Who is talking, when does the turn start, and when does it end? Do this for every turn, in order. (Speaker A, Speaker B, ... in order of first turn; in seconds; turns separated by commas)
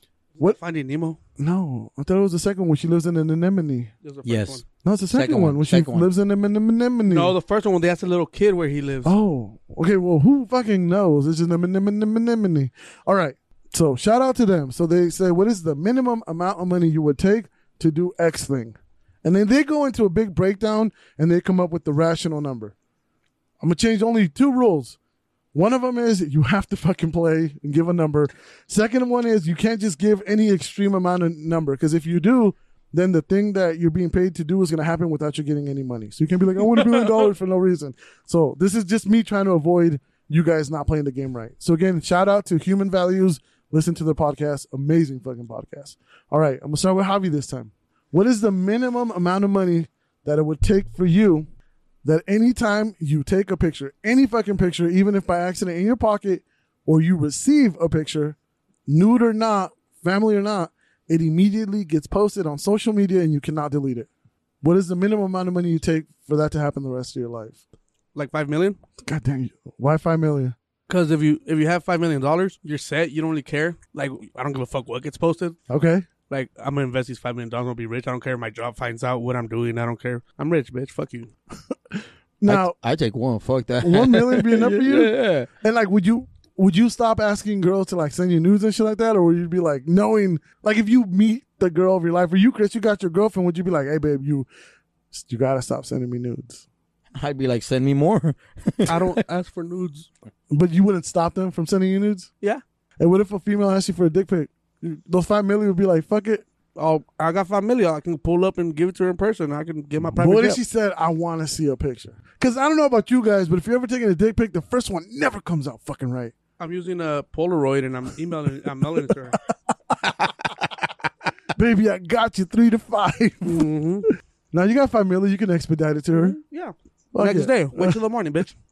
Speaker A: 0.4-1.2, Speaker B: 1.4-3.9, Speaker A: 4.0-4.6, Speaker C: 4.2-6.1, Speaker B: 4.8-7.3, Speaker A: 7.1-9.1, Speaker B: 9.1-22.7, Speaker B: 23.6-25.0, Speaker B: 25.5-51.5, Speaker A: 36.8-37.3, Speaker B: 52.0-58.4, Speaker B: 58.9-64.1, Speaker B: 64.6-67.6, Speaker A: 68.2-68.8, Speaker B: 69.0-70.5, Speaker A: 70.9-75.6, Speaker B: 75.7-76.1, Speaker A: 76.3-81.3, Speaker B: 81.9-82.8, Speaker C: 82.5-85.5, Speaker B: 83.8-94.5, Speaker B: 95.1-96.6, Speaker C: 97.2-99.2, Speaker A: 98.9-100.1, Speaker B: 100.5-102.3, Speaker B: 103.0-106.4, Speaker A: 106.8-110.6, Speaker B: 110.2-116.3, Speaker A: 116.6-119.4, Speaker B: 120.0-120.3, Speaker B: 121.5-123.7, Speaker A: 123.5-124.1, Speaker B: 124.5-126.4, Speaker A: 126.1-128.5, Speaker B: 127.1-128.0